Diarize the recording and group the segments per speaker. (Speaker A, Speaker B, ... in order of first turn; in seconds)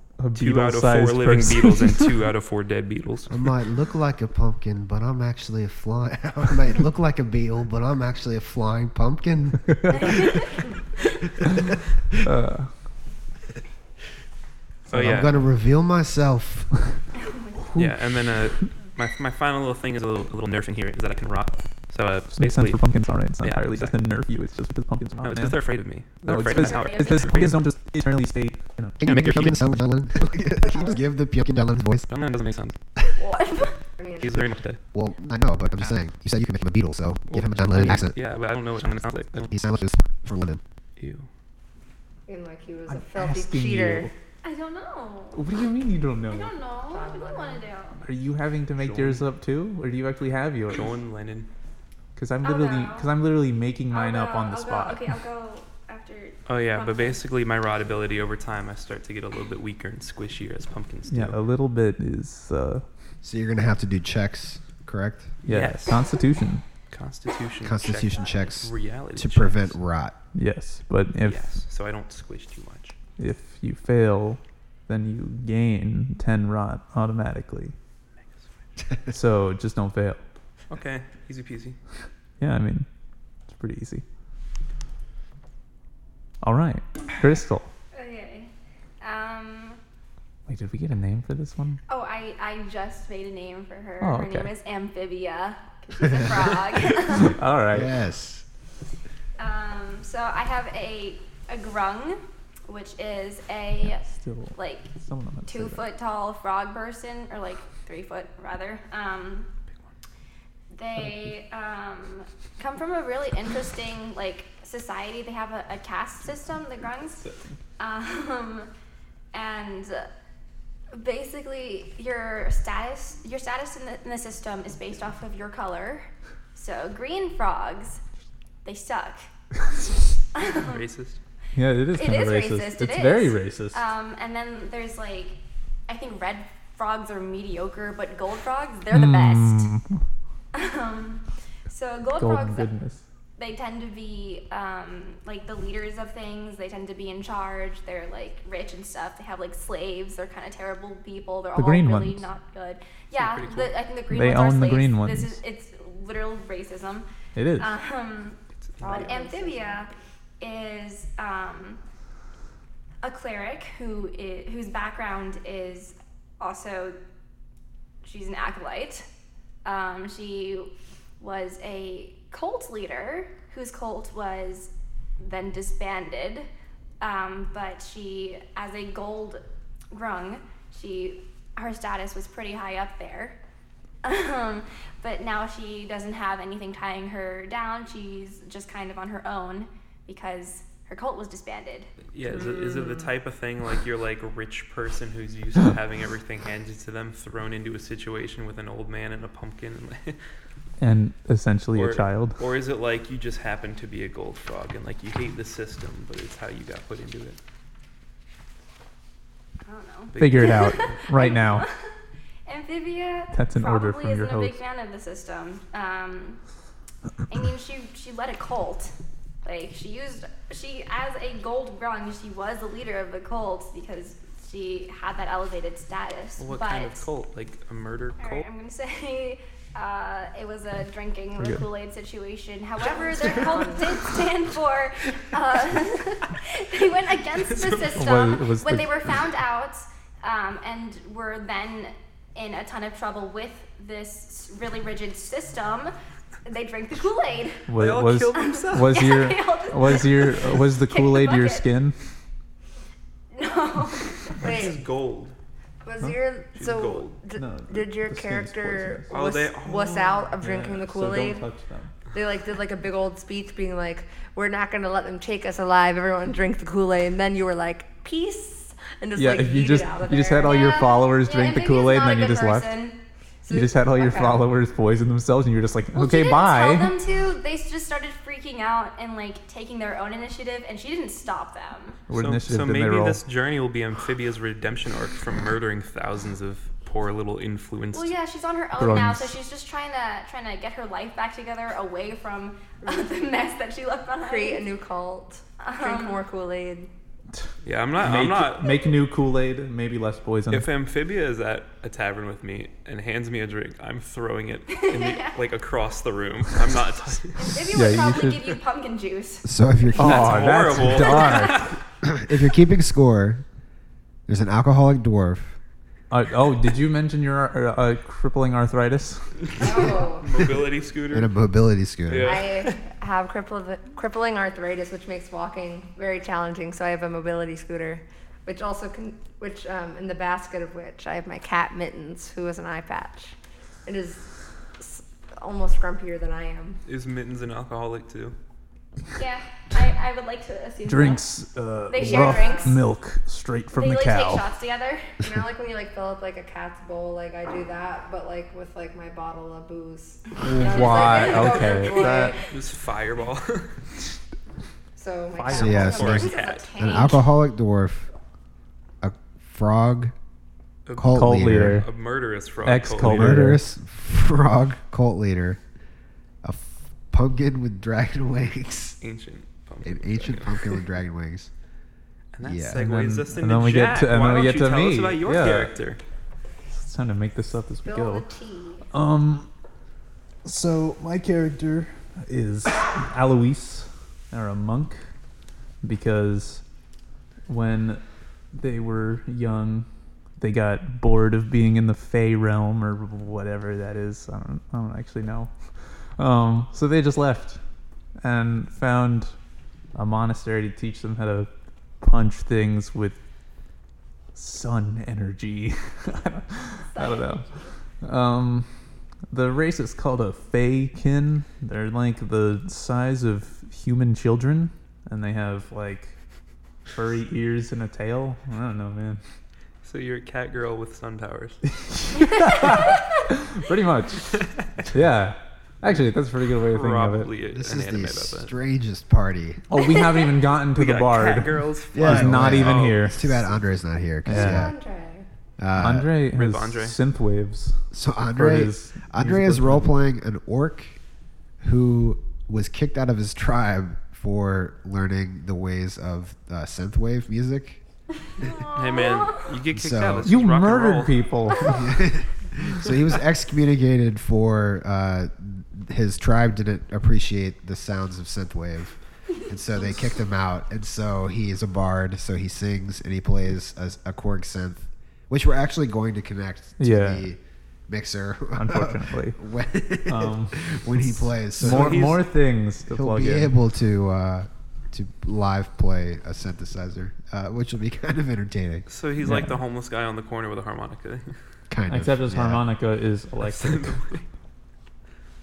Speaker A: 0.2-2.2, 12.2-12.7, 17.6-18.6, 22.3-25.6, 26.2-29.6, 37.7-38.0, 42.9-44.1, 45.3-46.5, 48.0-50.9, 52.1-55.2, 61.1-62.8, 65.4-66.7, 70.3-71.5, 73.2-77.8, 79.1-80.2, 82.4-82.9, 83.5-84.0, 86.4-87.7, 90.5-91.8, 94.0-94.5, 97.1-97.9, 104.0-105.9, 111.0-111.2, 117.2-117.5, 131.5-133.8, 138.9-140.0, 142.2-143.0, 151.5-152.3, 154.1-155.4, 157.4-157.7, 200.8-202.4, 210.2-211.7, 213.3-214.6, 231.4-231.6, 237.9-238.9, 247.7-252.0, 257.4-259.2, 260.4-262.0, 269.1-272.7, 273.5-276.9, 282.1-283.2, 288.8-289.4, 297.3-300.7, 307.7-308.5, 309.9-311.7, 316.1-319.9, 340.9-344.5, 350.4-352.4, 355.3-356.1, 361.1-361.9, 362.6-363.6, 372.8-375.7, 376.7-378.3, 378.9-379.5, 380.4-385.0, 385.8-386.6, 387.5-388.0, 388.5-389.9, 390.4-397.6, 398.2-399.3, 399.9-403.2, 404.3-407.4, 408.0-408.7, 409.3-416.1, 416.9-419.2, 421.7-427.3, 429.7-433.4, 434.2-434.7, 435.8-439.9, 450.2-451.9, 466.8-467.3, 468.5-469.4, 470.1-473.6, 479.2-479.6, 481.9-484.0
Speaker B: 0.3-3.5, 14.9-15.5, 17.8-22.8, 23.4-23.9, 25.2-27.6, 32.1-32.8, 34.2-34.8, 37.3-39.6, 41.0-41.3, 48.8-49.2, 50.7-51.5, 56.5-61.4, 65.5-66.0, 66.9-69.8, 71.2-73.0, 80.7-81.8, 130.4-131.2, 153.1-153.7, 158.6-159.2, 192.1-200.2, 201.7-207.4, 210.1-211.0, 226.4-228.4, 237.5-237.9, 247.8-249.0, 254.4-255.4, 256.5-257.2, 259.1-260.3, 282.1-288.1, 297.6-298.8, 300.5-307.5, 310.0-311.8, 319.6-321.3, 322.1-322.8, 336.9-338.3, 352.4-353.8, 355.7-356.7, 360.9-363.4, 369.0-370.8, 372.3-376.0, 419.8-421.6, 424.3-424.7, 426.6-428.5, 430.7-433.4, 436.3-437.0, 448.7-451.2, 471.6-472.2, 478.9-481.4, 483.4-484.2
Speaker C: 3.3-10.3, 11.4-11.8, 14.9-16.7, 29.0-32.1, 34.9-38.2, 39.5-40.6, 63.2-65.3, 67.6-70.2, 97.7-98.4, 309.4-310.7, 312.0-313.4, 314.3-315.6, 321.1-322.4, 355.5-358.1, 359.0-360.1, 361.0-361.9, 363.0-365.6, 366.4-369.0, 369.8-371.5, 372.4-372.8, 427.5-429.6, 431.9-434.7, 435.6-436.1, 437.9-441.0, 441.6-447.8, 449.7-450.3, 451.7-472.2, 472.9-478.9, 481.7-482.6
Speaker D: 17.2-17.6, 26.5-27.4, 33.2-33.8, 44.4-45.4, 46.3-48.0, 52.4-53.1, 53.9-57.2, 87.9-89.8, 91.9-97.4, 99.4-104.9, 105.5-109.5, 110.7-117.2, 117.8-118.7, 119.3-120.1, 120.9-128.0, 128.6-129.3, 130.3-130.8, 131.9-139.7, 140.5-142.7, 143.4-157.1, 157.6-161.8, 163.0-167.0, 168.0-169.1, 169.6-176.5, 177.0-183.4, 184.0-191.9, 209.6-211.9, 212.4-216.4, 217.3-218.9, 219.4-227.1, 228.2-245.9, 246.4-247.7, 248.3-251.7, 253.3-254.4, 270.4-273.0, 275.9-282.0, 287.9-294.7, 295.6-296.2, 304.7-305.4, 307.4-309.5, 311.0-311.6, 339.1-341.2, 341.9-342.8, 343.7-345.1, 350.5-352.4, 355.5-357.3, 406.9-407.4, 448.4-449.5
Speaker E: 34.0-34.3, 42.3-44.1, 46.9-47.6, 158.8-159.9, 192.3-192.9, 232.9-233.8, 254.4-254.8, 255.8-261.4, 262.1-270.8, 273.4-274.4, 292.8-293.1, 294.2-296.9, 319.6-320.3, 322.2-336.8, 341.9-342.8, 345.2-352.4, 354.9-356.4, 377.9-378.9, 434.3-435.2